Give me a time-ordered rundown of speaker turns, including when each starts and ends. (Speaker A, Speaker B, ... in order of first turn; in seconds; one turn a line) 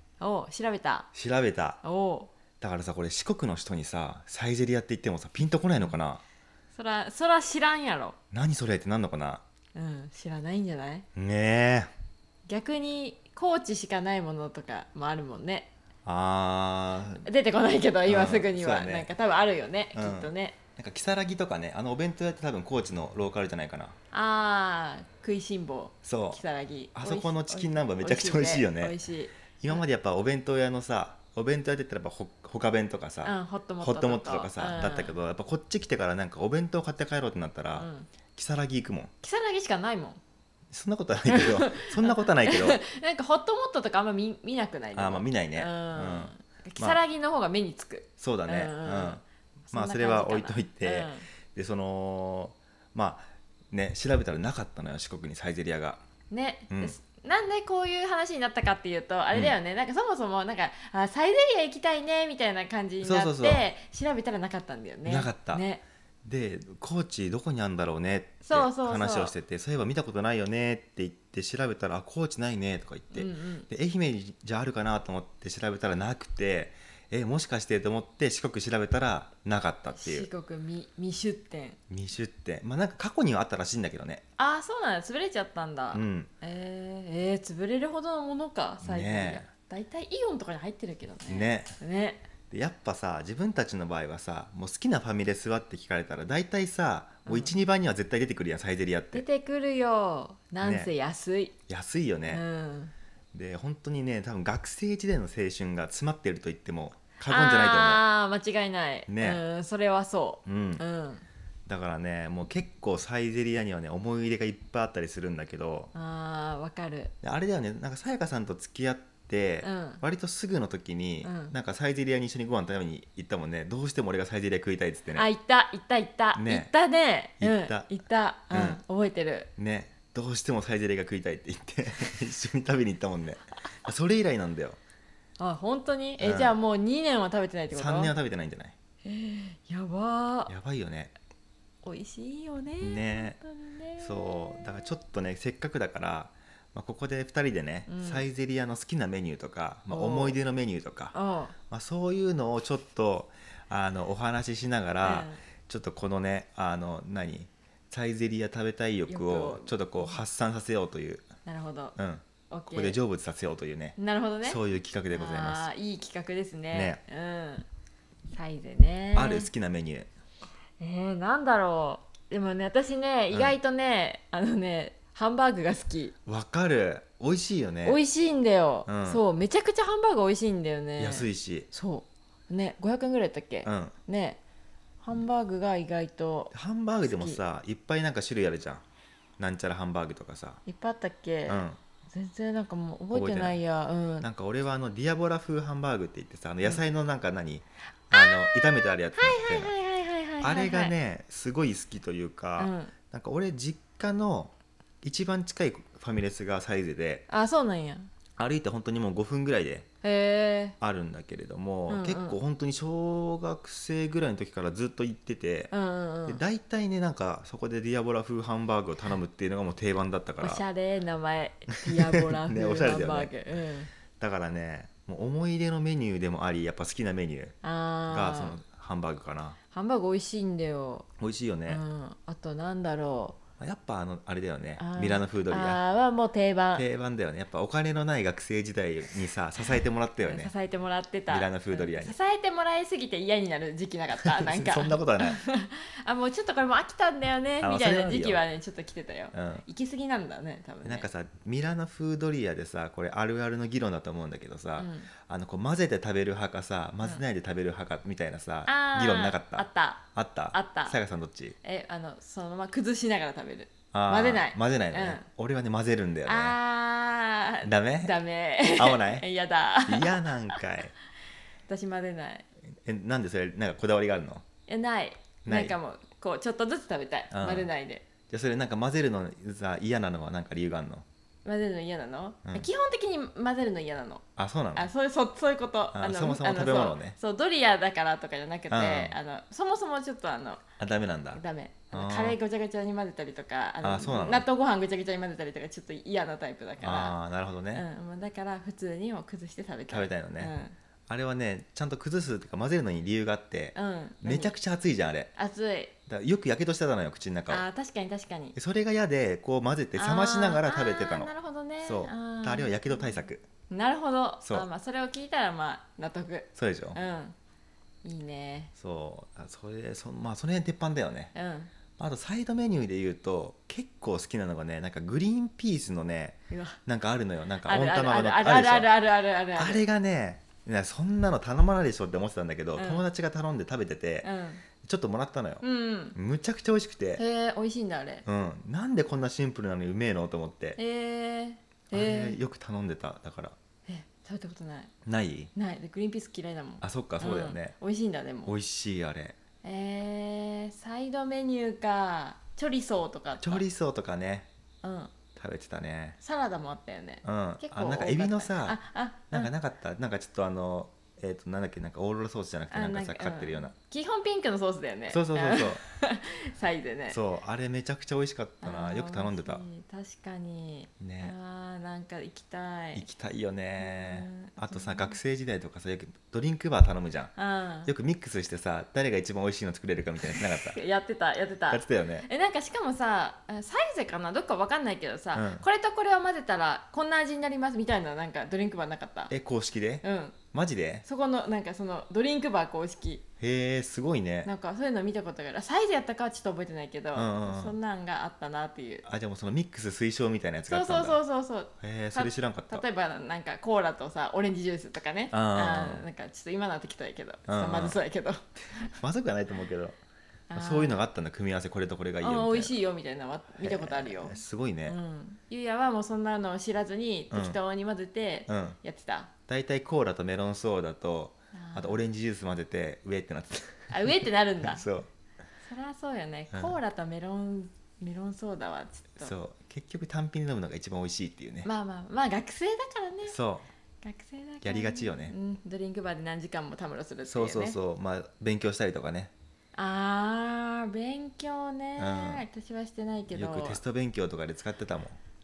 Speaker A: 0.2-1.1
Speaker B: 1.1-1.8
Speaker A: 1.8-2.3
Speaker B: 2.6-6.2
Speaker A: 6.7-8.2
Speaker B: 8.3-9.4
Speaker A: 9.7-11.1
Speaker B: 11.1-11.9
Speaker A: 12.4-15.7
Speaker B: 16.0-17.3
Speaker A: 17.2-20.6
Speaker B: 18.1-19.1
Speaker B: 19.9-23.9
Speaker A: 24.1-29.8
Speaker B: 26.0-26.4
Speaker B: 26.9-28.9
Speaker B: 29.6-39.1
Speaker A: 33.2-35.1
Speaker A: 37.8-38.1
Speaker A: 39.2-40.2
Speaker B: 40.7-42.8
Speaker A: 41.3-49.2
Speaker B: 44.9-47.0
Speaker B: 48.2-56.0
Speaker A: 49.7-51.3
Speaker A: 56.3-65.8
Speaker B: 56.7-57.0
Speaker B: 63.0-63.6
Speaker B: 65.0-65.7
Speaker B: 66.2-80.3
Speaker A: 68.4-69.3
Speaker A: 73.1-73.7
Speaker A: 79.9-81.8
Speaker B: 81.9-84.2
Speaker A: 84.4-92.2
Speaker B: 85.9-86.3
Speaker B: 88.8-89.4
Speaker B: 91.3-91.7
Speaker B: 92.5-99.2
Speaker A: 97.2-97.5
Speaker A: 99.1-101.5
Speaker B: 100.6-100.9
Speaker B: 101.7-102.4
Speaker A: 102.3-102.9
Speaker B: 103.3-108.0
Speaker A: 107.3-111.2
Speaker B: 109.1-109.4
Speaker B: 110.5-110.8
Speaker B: 111.7-115.9
Speaker A: 115.9-117.1
Speaker B: 117.2-125.3
Speaker A: 119.6-120.0
Speaker A: 121.2-121.5
Speaker A: 125.1-129.5
Speaker B: 126.3-126.7
Speaker B: 127.4-127.9
Speaker B: 128.5-128.8
Speaker B: 129.6-134.8
Speaker A: 135.4-138.1
Speaker B: 136.2-136.6
Speaker B: 137.7-138.7
Speaker A: 139.0-140.5
Speaker B: 140.5-141.1
Speaker A: 141.8-144.8
Speaker B: 142.8-143.4
Speaker B: 144.0-151.1
Speaker A: 147.9-148.2
Speaker A: 149.9-150.4
Speaker A: 151.1-151.5
Speaker B: 151.7-161.3
Speaker A: 155.0-155.4
Speaker A: 159.1-160.2
Speaker A: 161.4-161.9
Speaker B: 161.9-165.7
Speaker A: 162.5-163.0
Speaker A: 164.0-167.7
Speaker B: 166.7-167.0
Speaker A: 168.3-169.5
Speaker B: 169.1-170.1
Speaker A: 170.8-176.1
Speaker B: 173.3-173.6
Speaker B: 176.2-178.0
Speaker A: 177.8-184.4
Speaker B: 178.8-179.2
Speaker B: 181.0-181.7
Speaker B: 183.6-183.9
Speaker A: 185.0-186.5
Speaker B: 186.5-188.8
Speaker A: 187.0-187.4
Speaker B: 189.4-190.6
Speaker A: 190.7-194.3
Speaker B: 191.5-191.8
Speaker B: 193.1-193.6
Speaker B: 194.2-199.7
Speaker A: 198.1-200.9
Speaker B: 200.4-207.2
Speaker A: 202.6-202.9
Speaker A: 207.3-208.1
Speaker B: 208.4-209.9
Speaker A: 210.0-210.8
Speaker B: 210.8-215.7
Speaker A: 211.9-212.4
Speaker A: 215.7-216.4
Speaker B: 216.3-220.6
Speaker A: 220.4-223.9
Speaker B: 221.8-223.3
Speaker B: 224.1-227.6
Speaker A: 227.6-228.6
Speaker B: 228.1-229.6
Speaker A: 229.7-231.1
Speaker B: 231.2-231.8
Speaker A: 231.7-233.4
Speaker B: 233.6-235.8
Speaker A: 234.8-236.8
Speaker B: 236.7-240.5
Speaker A: 240.2-251.1
Speaker B: 241.3-242.2
Speaker B: 244.2-245.4
Speaker B: 247.6-248.4
Speaker B: 249.3-249.6
Speaker B: 250.8-261.6
Speaker A: 254.8-255.1
Speaker A: 258.6-261.0
Speaker A: 261.6-265.2
Speaker B: 263.9-266.6
Speaker A: 266.2-270.6
Speaker B: 267.6-268.2
Speaker B: 268.7-269.2
Speaker B: 269.9-270.9
Speaker A: 271.7-272.4
Speaker B: 272.8-274.4
Speaker A: 274.7-278.1
Speaker B: 275.4-275.8
Speaker B: 277.3-277.7
Speaker B: 278.3-281.0
Speaker A: 281.4-284.2
Speaker B: 284.4-284.9
Speaker A: 284.7-290.6
Speaker B: 285.9-287.2
Speaker B: 288.7-289.2
Speaker B: 290.8-291.4
Speaker A: 291.3-297.2
Speaker B: 291.9-292.4
Speaker B: 293.8-294.5
Speaker B: 296.8-297.8
Speaker A: 297.7-300.7
Speaker B: 299.9-300.5
Speaker B: 301.1-305.3
Speaker A: 303.7-304.5
Speaker A: 305.4-305.9
Speaker B: 306.1-307.6
Speaker A: 307.5-308.5
Speaker B: 308.5-311.3
Speaker A: 309.9-317.3
Speaker B: 311.8-313.4
Speaker B: 316.5-317.0
Speaker A: 318.0-318.7
Speaker B: 318.8-321.3
Speaker A: 321.3-321.7
Speaker B: 322.0-328.9
Speaker A: 326.5-326.8
Speaker A: 327.6-329.8
Speaker B: 329.5-334.3
Speaker A: 332.8-333.0
Speaker A: 334.2-334.6
Speaker B: 334.8-335.6
Speaker A: 335.6-336.1
Speaker B: 336.1-337.2
Speaker A: 337.2-338.2
Speaker B: 338.2-340.8
Speaker A: 340.8-342.4
Speaker B: 341.9-343.6
Speaker A: 343.9-344.9
Speaker B: 345.0-345.5
Speaker A: 345.5-348.5
Speaker B: 346.8-347.7
Speaker B: 348.4-349.4
Speaker A: 349.6-353.6
Speaker B: 353.4-354.5
Speaker A: 354.8-355.1
Speaker B: 355.4-356.2
Speaker A: 356.2-359.5
Speaker B: 357.2-358.8
Speaker B: 359.3-363.7
Speaker A: 362.7-367.2
Speaker B: 365.1-365.8
Speaker B: 367.1-369.6
Speaker A: 368.6-373.1
Speaker B: 371.0-371.3
Speaker B: 372.9-377.3
Speaker A: 373.8-375.2
Speaker A: 377.4-377.9
Speaker B: 377.8-380.8
Speaker A: 380.2-389.3
Speaker B: 381.7-382.3
Speaker B: 385.3-385.6
Speaker B: 389.3-391.0
Speaker A: 390.0-390.4
Speaker A: 391.0-393.2
Speaker B: 393.4-394.5
Speaker A: 394.4-399.0
Speaker B: 397.1-397.7
Speaker B: 399.0-401.2
Speaker A: 400.7-408.9
Speaker B: 401.8-402.8
Speaker B: 405.3-406.0
Speaker B: 407.5-408.0
Speaker B: 409.0-410.0
Speaker A: 410.5-411.0
Speaker B: 410.5-412.8
Speaker A: 412.2-419.3
Speaker B: 413.6-415.0
Speaker B: 417.3-417.6
Speaker B: 418.5-418.8
Speaker B: 419.5-424.1
Speaker A: 421.5-422.0
Speaker A: 423.9-424.8
Speaker B: 424.6-425.1
Speaker A: 425.6-429.3
Speaker B: 426.5-426.8
Speaker B: 429.2-431.7
Speaker A: 431.6-433.3
Speaker B: 433.2-433.7
Speaker A: 434.0-437.8
Speaker B: 434.6-435.3
Speaker B: 437.2-439.3
Speaker A: 439.7-443.8
Speaker B: 442.0-442.4
Speaker B: 443.3-445.2